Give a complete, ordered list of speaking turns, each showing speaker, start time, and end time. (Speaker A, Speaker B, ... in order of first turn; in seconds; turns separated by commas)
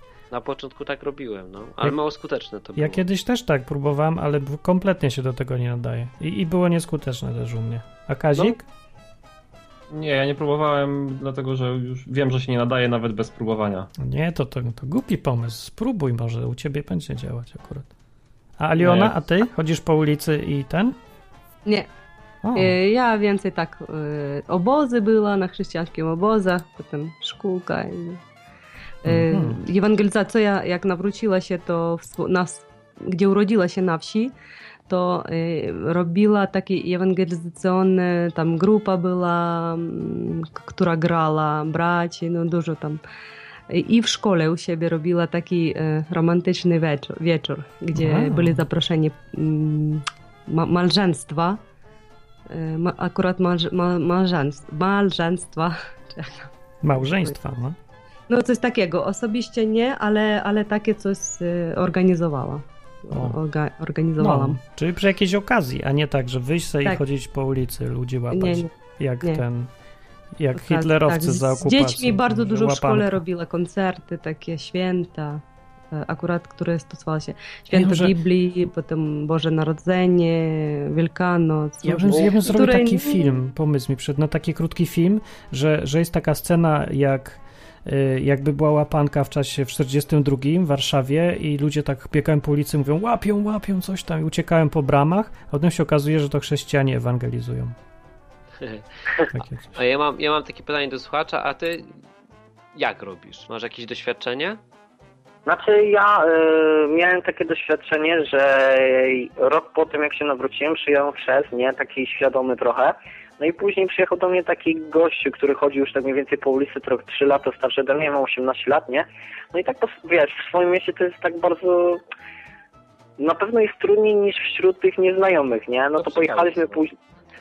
Speaker A: 0.3-3.1, Speaker B: 2.8-8.7, Speaker C: 9.9-13.9, Speaker B: 14.0-17.9, Speaker B: 18.6-21.0, Speaker C: 18.8-19.1, Speaker B: 22.4-22.8, Speaker D: 22.6-28.2, Speaker D: 29.0-34.3, Speaker B: 29.1-29.6, Speaker D: 34.9-43.0, Speaker D: 43.7-51.6, Speaker B: 47.9-48.6, Speaker D: 52.5-57.4, Speaker B: 56.8-57.8, Speaker D: 58.3-64.6, Speaker B: 63.1-63.4, Speaker B: 64.2-69.7, Speaker D: 68.3-68.7, Speaker B: 70.4-73.2, Speaker D: 70.5-83.4, Speaker B: 77.7-78.1, Speaker B: 81.8-97.8, Speaker A: 98.6-102.0, Speaker B: 99.3-99.8, Speaker A: 102.8-104.6, Speaker E: 105.5-122.0, Speaker E: 123.2-126.9, Speaker A: 126.0-126.8